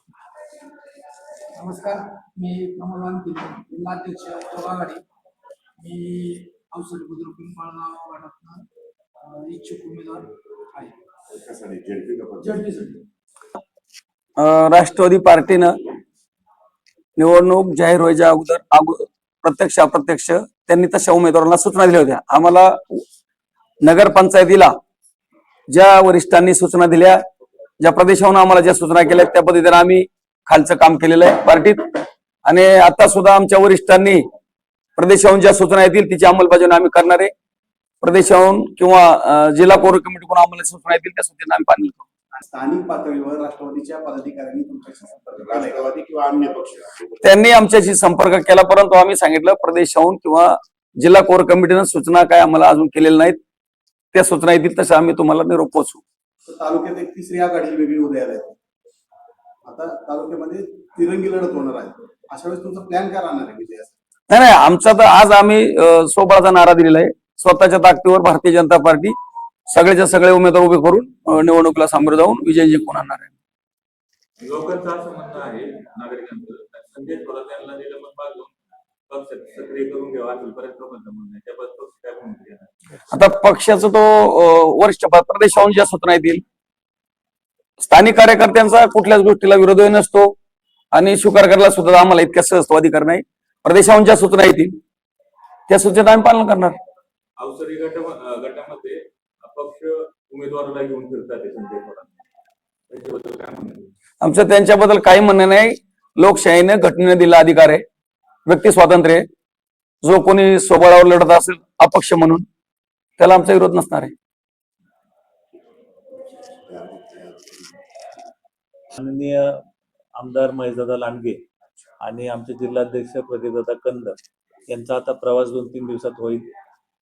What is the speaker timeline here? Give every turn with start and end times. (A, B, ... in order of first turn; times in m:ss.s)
0:01.5-0:05.0 A
0:05.8-0:08.6 A
0:09.2-0:10.9 A
0:11.3-0:12.6 B
0:12.4-0:13.0 A
0:14.4-0:15.7 C
0:17.2-0:23.0 C
0:23.8-0:24.7 C
0:25.7-0:27.2 C
0:27.8-0:31.8 C
0:32.4-0:34.2 C
0:35.0-0:37.3 C
0:38.0-0:42.0 C
0:42.3-0:45.9 D
0:45.4-0:47.2 B
0:47.2-0:53.4 C
0:54.1-0:56.0 C
0:56.4-0:58.6 D
0:59.6-1:03.9 D
1:04.3-1:09.1 C
1:09.7-1:13.3 C
1:14.4-1:18.5 E
1:19.1-1:22.7 E
1:23.1-1:26.4 C
1:27.8-1:30.3 C
1:30.9-1:34.8 C
1:35.7-1:36.7 C
1:37.4-1:42.0 E
1:42.9-1:43.8 E
1:44.2-1:47.8 C
1:48.4-1:49.2 C
1:50.0-1:52.4 C
1:53.2-1:54.1 C
1:56.6-1:57.6 B
1:58.9-1:59.6 F
2:00.2-2:01.4 F
2:02.0-2:04.2 F
2:04.7-2:06.5 F